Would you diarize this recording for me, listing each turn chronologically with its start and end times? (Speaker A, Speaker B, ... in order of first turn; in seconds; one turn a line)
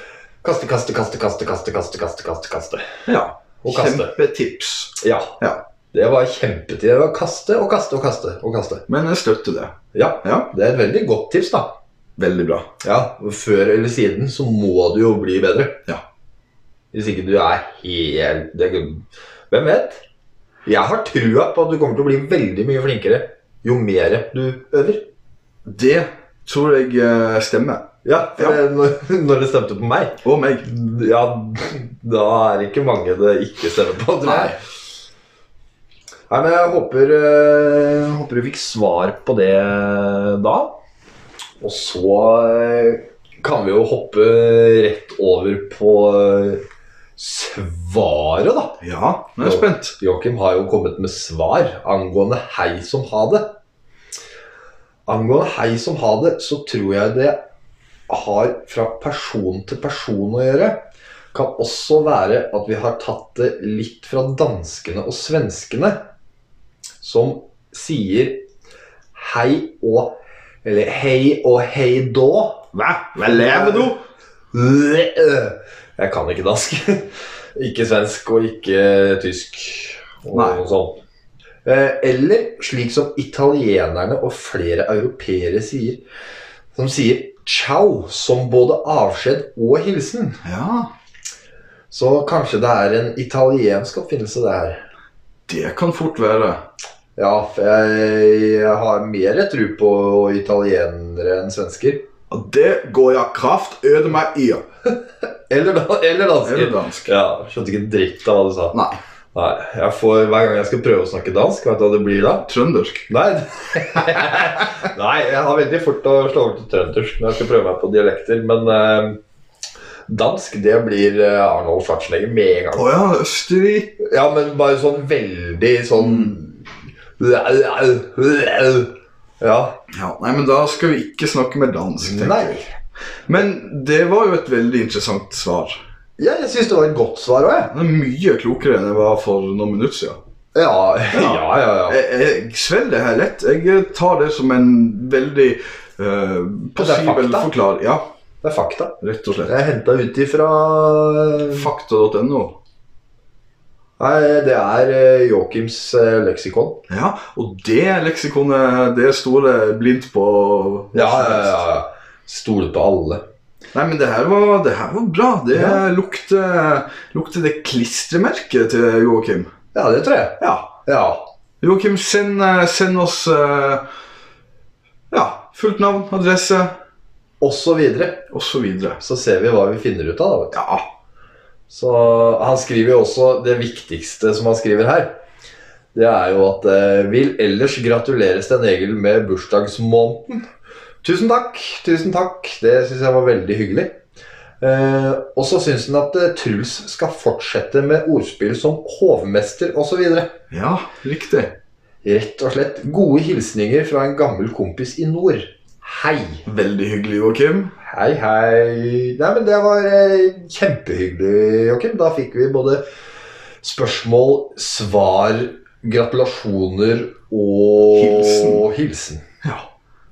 Speaker A: 0.4-2.9
Speaker B: 3.1-5.6
Speaker A: 3.6-4.1
Speaker A: 5.0-5.4
Speaker A: 5.9-8.8
Speaker B: 8.9-10.5
Speaker A: 9.9-11.7
Speaker B: 12.2-12.7
Speaker A: 12.8-15.8
Speaker A: 16.9-20.0
Speaker A: 20.6-25.1
Speaker B: 25.6-27.9
Speaker A: 28.0-34.6
Speaker B: 30.2-30.6
Speaker B: 34.2-34.5
Speaker A: 36.3-40.8
Speaker A: 41.6-46.6
Speaker A: 47.2-48.8
Speaker B: 48.8-49.9
Speaker A: 49.4-53.5
Speaker A: 55.1-57.4
Speaker A: 58.1-66.0
Speaker A: 67.0-68.5
Speaker A: 69.1-74.0
Speaker B: 73.1-74.0
Speaker A: 74.5-81.0
Speaker B: 80.3-80.6
Speaker A: 81.6-86.0
Speaker A: 86.7-90.4
Speaker B: 90.4-90.9
Speaker A: 91.9-94.8
Speaker B: 95.5-96.6
Speaker A: 97.2-102.1
Speaker B: 102.3-104.6
Speaker A: 105.5-108.8
Speaker B: 106.4-107.1
Speaker B: 108.7-109.0
Speaker A: 109.3-112.5
Speaker B: 112.5-113.1
Speaker A: 113.1-119.2
Speaker A: 120.1-122.9
Speaker B: 122.7-123.9
Speaker A: 124.0-129.8
Speaker B: 126.0-126.3
Speaker B: 129.9-132.6
Speaker A: 132.0-132.7
Speaker B: 133.3-135.8
Speaker A: 136.2-137.7
Speaker B: 137.7-140.2
Speaker A: 140.5-142.0
Speaker B: 141.1-148.0
Speaker A: 146.8-147.5
Speaker A: 148.4-151.7
Speaker B: 149.0-149.5
Speaker B: 151.5-152.6
Speaker A: 154.0-156.8
Speaker B: 156.9-161.6
Speaker A: 160.9-163.2
Speaker B: 163.7-169.5
Speaker A: 165.5-165.8
Speaker A: 169.7-171.2
Speaker B: 170.4-170.7
Speaker B: 171.6-173.8
Speaker B: 175.1-176.7
Speaker A: 177.4-178.3
Speaker B: 178.3-179.0
Speaker A: 179.0-180.6
Speaker B: 180.5-180.8
Speaker A: 181.7-185.2
Speaker A: 185.9-190.4
Speaker A: 191.0-193.9
Speaker A: 194.6-200.3
Speaker B: 200.5-201.6
Speaker A: 202.0-206.4
Speaker B: 206.4-207.7
Speaker A: 207.8-212.8
Speaker A: 213.6-219.2
Speaker B: 217.9-218.6